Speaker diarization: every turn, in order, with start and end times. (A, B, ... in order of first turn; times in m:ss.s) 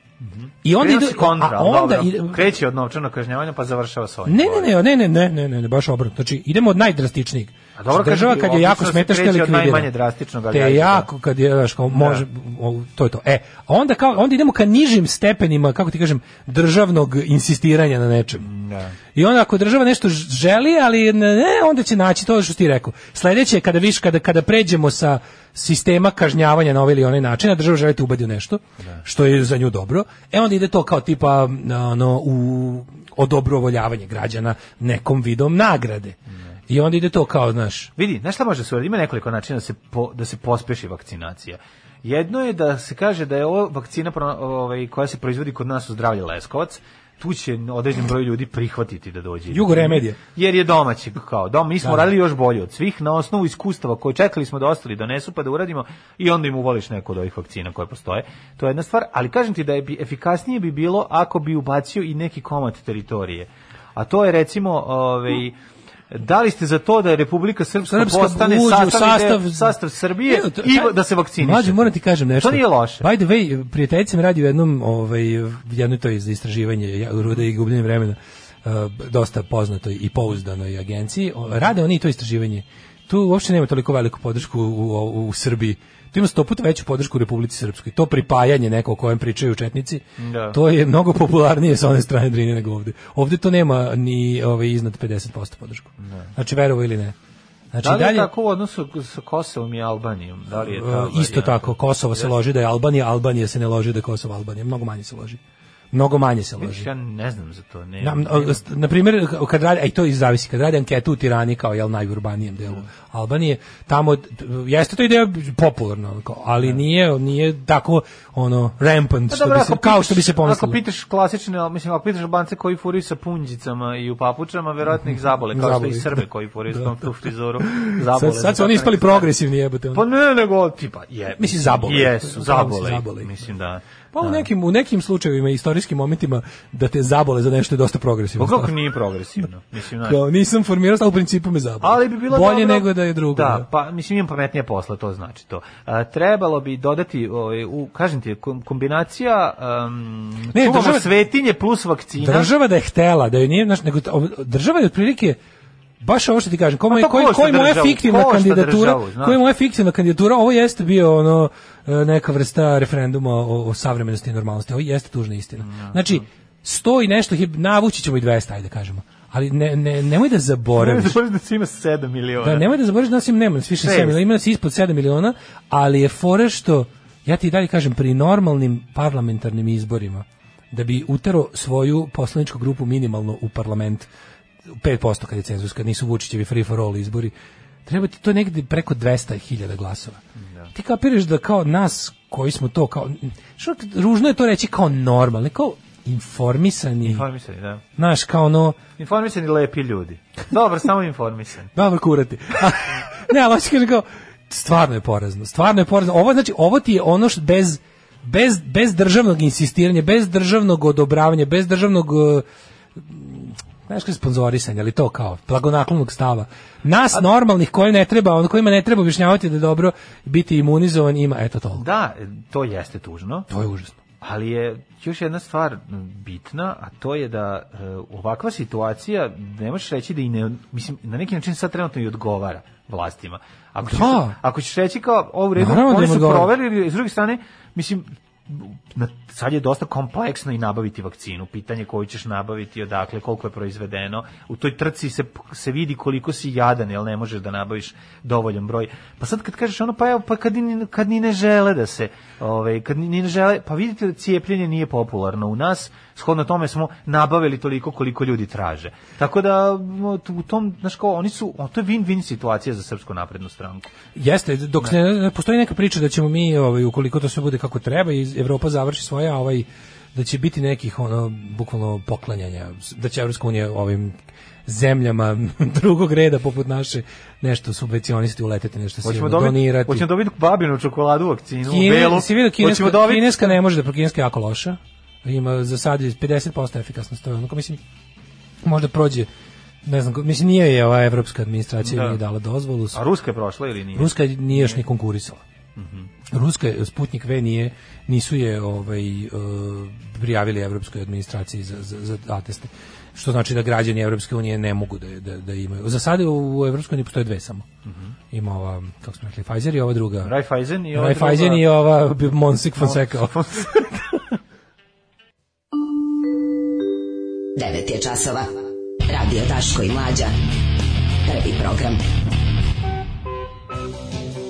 0:00.2-0:04.7 A
0:00.6-0:02.5 B
0:04.3-0:09.9 B
0:07.8-0:11.1 A
0:10.5-0:18.5 B
0:11.9-0:12.2 A
0:18.4-0:19.0 A
0:19.1-0:36.2 B
0:36.7-0:37.9 B
0:38.0-1:05.6 A
0:49.5-0:50.2 B
0:51.8-0:52.1 B
1:06.1-1:13.0 A
1:07.9-1:37.1 B
1:30.2-1:30.6 A
1:36.0-1:36.3 A
1:37.7-1:38.3 B
1:37.8-1:42.3 A
1:40.5-1:45.4 B
1:45.9-1:46.9 B
1:46.6-1:48.6 A
1:48.0-2:00.8 B
1:59.3-2:09.3 A
2:05.5-2:07.1 B
2:07.6-2:10.0 B
2:09.9-2:14.5 A
2:11.4-2:13.3 B
2:14.1-2:18.7 B
2:18.4-2:20.2 A
2:20.0-2:23.6 B
2:21.8-2:32.5 A
2:30.5-2:31.1 B
2:32.2-2:35.4 B
2:36.0-2:51.2 B
2:36.9-2:39.4 A
2:45.6-2:46.2 A
2:50.7-2:52.7 A
2:52.4-3:04.1 B
2:53.8-2:54.2 A
3:04.8-3:07.3 B
3:07.8-3:10.2 B
3:10.7-3:17.2 B
3:17.0-3:17.8 A
3:18.0-3:18.8 B
3:19.0-3:21.7 A
3:21.7-3:32.4 B
3:33.0-3:41.8 B
3:41.8-3:43.5 A
3:43.5-3:44.0 B
3:44.2-4:23.9 A
3:53.8-3:54.4 B
3:55.6-3:56.5 B
4:24.1-4:40.0 B
4:39.0-4:43.6 A
4:41.7-4:47.8 B
4:48.6-4:49.3 B
4:49.8-4:53.0 B
4:51.8-4:52.2 A
4:52.9-4:54.8 A
4:53.9-4:55.4 B
4:55.8-4:56.1 A
4:56.3-5:07.6 B
5:07.8-5:08.1 A
5:08.3-5:10.3 B
5:10.2-5:11.8 A
5:10.9-5:13.4 B
5:12.8-5:14.0 A
5:17.6-5:18.5 C
5:19.1-5:20.3 C
5:21.2-5:22.0 C